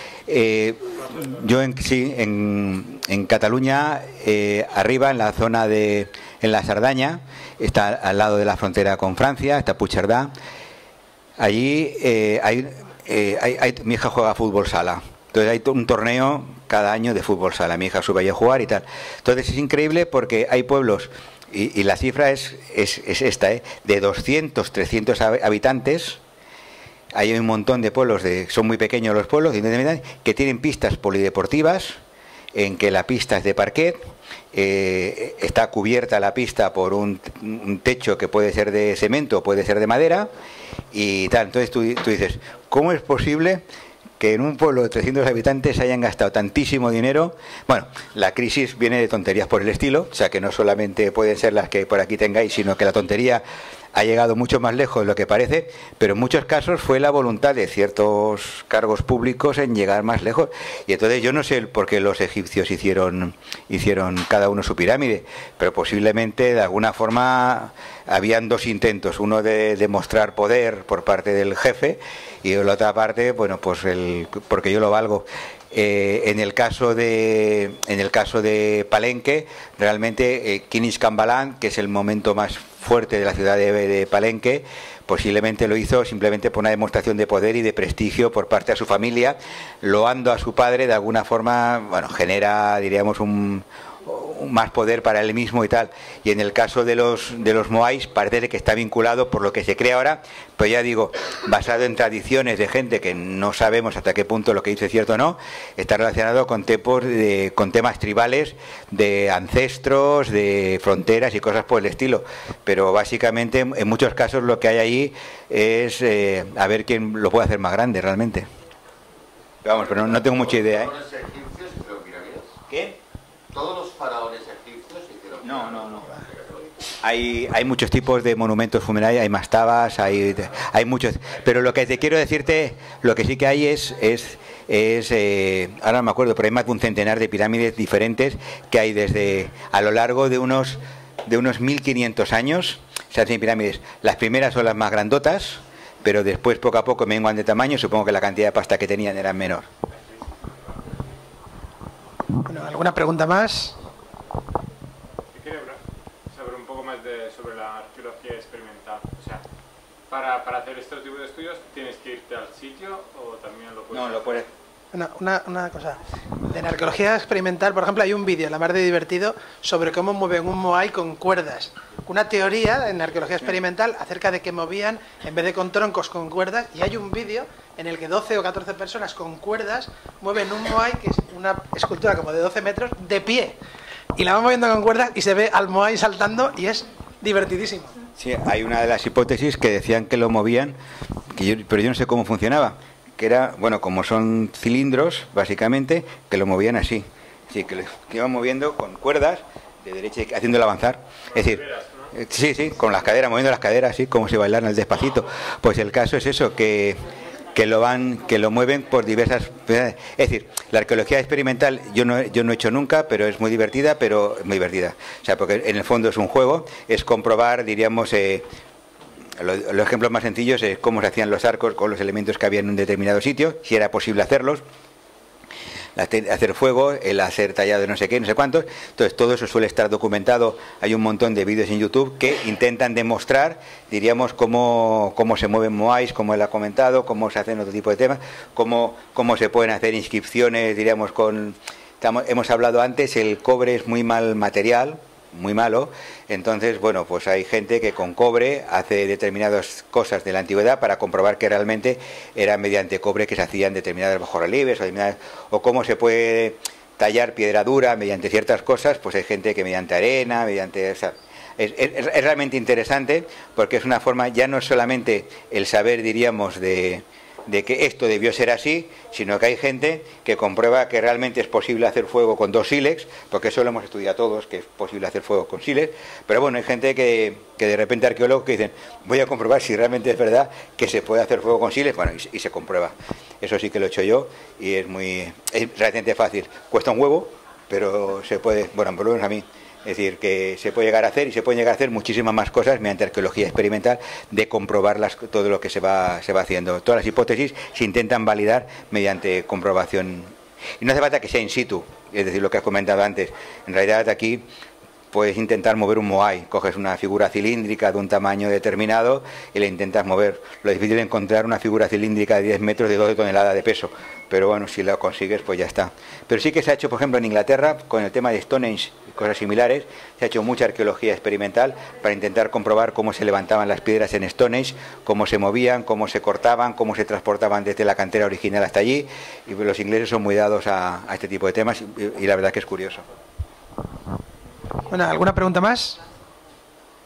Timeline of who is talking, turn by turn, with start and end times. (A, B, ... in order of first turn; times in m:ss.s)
0:00.3-0:10.3 A
0:11.4-0:26.2 A
0:27.1-0:32.0 A
0:32.5-0:40.3 A
0:40.9-0:43.6 A
0:44.2-1:58.5 A
1:59.6-2:00.9 A
1:59.7-2:02.5 B
2:02.7-2:03.0 A
2:03.5-2:06.6 B
2:05.4-2:06.1 A
2:07.0-2:29.7 A
2:32.4-2:33.7 C
2:35.3-2:39.4 D
2:40.1-2:44.5 D
2:43.9-2:44.5 A
2:44.9-3:03.6 C
3:04.2-3:07.9 C
3:08.2-3:10.8 A
3:11.3-3:27.0 A
3:21.4-3:21.9 D
3:27.5-3:38.4 A
3:39.4-3:44.6 A
3:46.0-5:04.4 A
5:05.1-5:33.0 A
5:34.9-5:36.0 C